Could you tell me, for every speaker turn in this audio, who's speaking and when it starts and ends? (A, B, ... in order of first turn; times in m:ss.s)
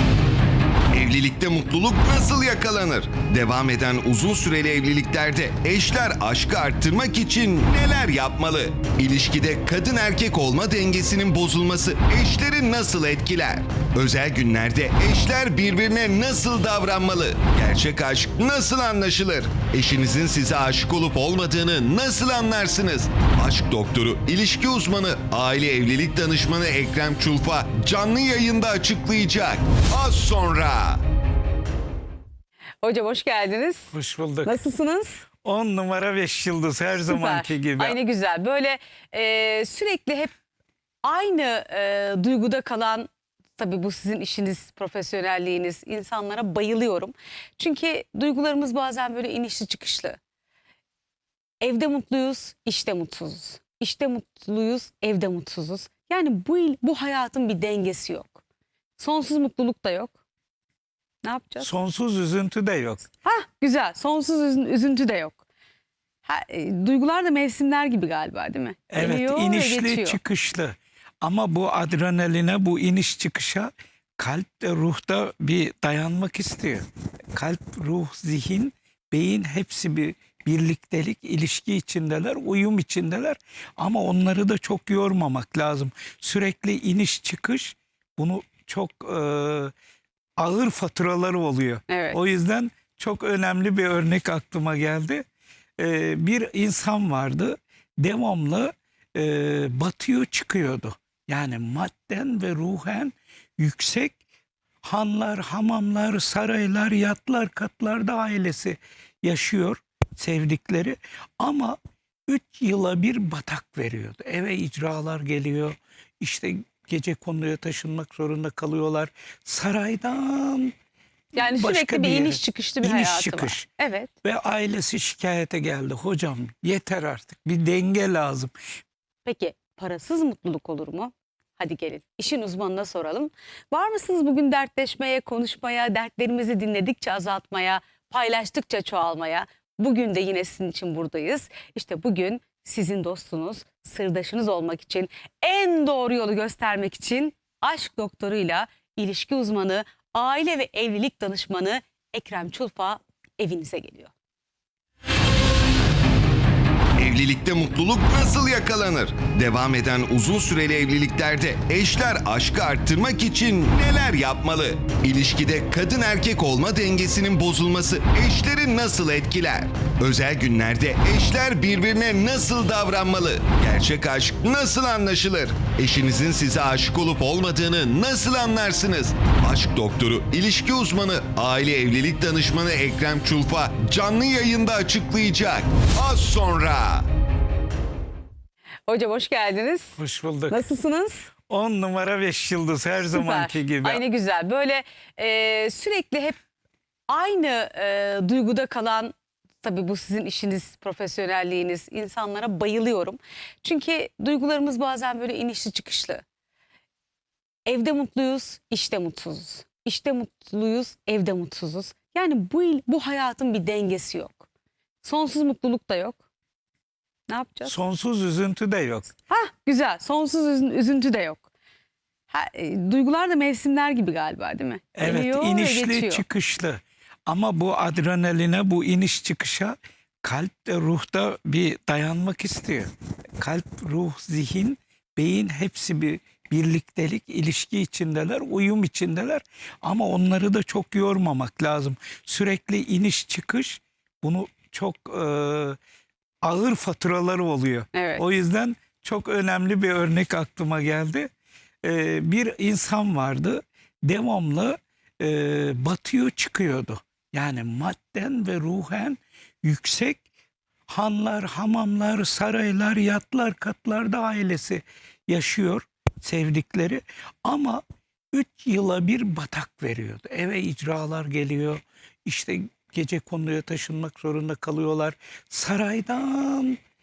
0:00.9-0:31.0 A
0:32.8-0:35.2 B
0:33.9-0:34.6 C
0:35.4-0:38.0 C
0:36.9-0:40.3 B
0:41.0-0:50.2 B
0:51.6-0:58.4 B
0:59.0-1:00.1 B
1:01.2-1:01.7 B
1:01.6-1:03.1 C
1:03.2-1:05.4 B
1:06.2-1:10.2 B
1:08.9-1:29.7 C
1:30.4-1:35.2 C
1:31.9-1:32.2 B
1:35.8-1:44.2 C
1:44.8-2:00.7 C
2:01.3-2:03.7 C
2:01.3-2:04.1 B
2:04.2-2:08.5 C
2:09.2-2:34.1 B
2:37.0-3:07.0 A
3:08.9-3:11.3 B
3:10.0-3:10.6 C
3:11.5-3:14.0 C
3:13.0-3:16.4 B
3:17.1-3:26.2 B
3:27.6-3:34.5 B
3:35.0-3:36.2 B
3:37.3-3:37.8 B
3:37.6-3:39.1 C
3:39.3-3:41.4 B
3:42.3-3:46.2 B
3:44.9-4:05.8 C
4:06.4-4:11.3 C
4:07.9-4:08.3 B
4:11.8-4:20.2 C
4:20.9-4:36.8 C